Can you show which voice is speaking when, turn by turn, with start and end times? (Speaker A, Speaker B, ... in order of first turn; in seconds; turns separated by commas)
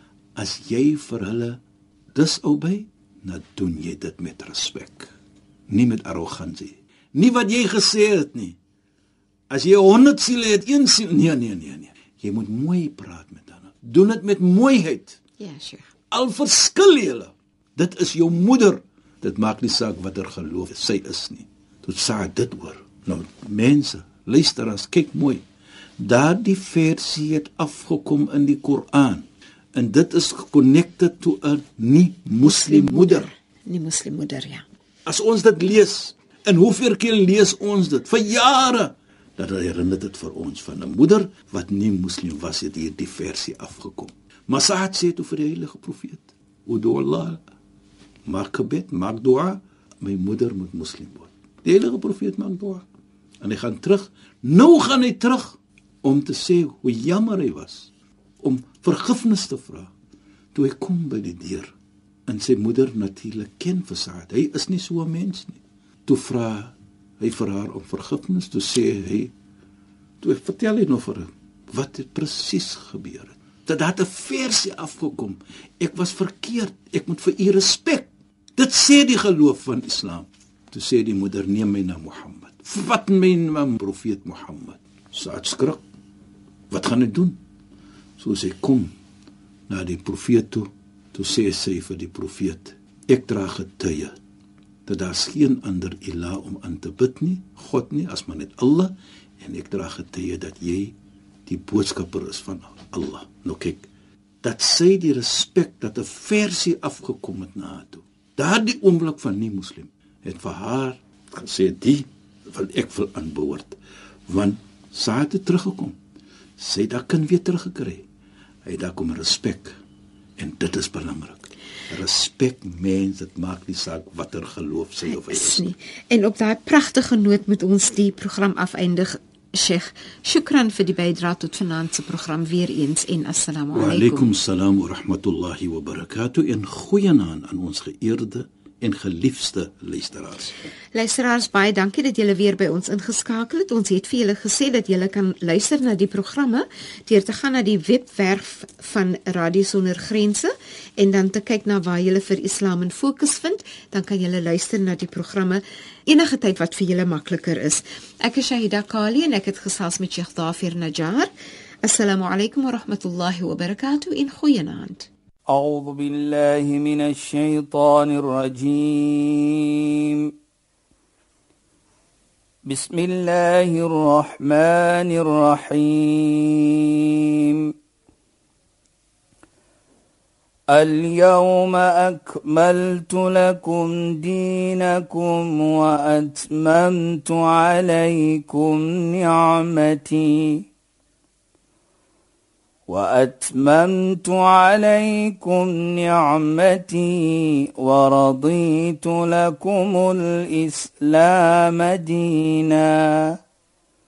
Speaker A: 0.3-1.6, Speaker A: 2.1-5.1, Speaker A: 5.7-8.6, Speaker A: 9.5-15.2, Speaker B: 15.4-15.9, Speaker A: 16.1-25.4, Speaker A: 26.0-33.3, Speaker B: 32.4-34.6, Speaker A: 35.0-47.4, Speaker A: 48.3-52.8, Speaker A: 53.4-57.9, Speaker A: 58.4-59.9, Speaker A: 60.5-61.7, Speaker A: 62.3-69.3, Speaker A: 70.2-85.8, Speaker A: 86.7-87.4, Speaker A: 88.2-88.9, Speaker A: 89.7-94.2, Speaker A: 94.8-100.9, Speaker A: 101.5-103.8, Speaker A: 104.4-116.0, Speaker A: 116.6-118.0, Speaker A: 118.7-119.8, Speaker A: 120.4-125.7, Speaker B: 125.0-134.3, Speaker A: 133.7-140.6, Speaker B: 140.9-161.3, Speaker B: 161.8-165.1, Speaker C: 165.5-170.3, Speaker C: 172.6-177.7, Speaker C: 180.7-190.7, Speaker C: 192.9-203.4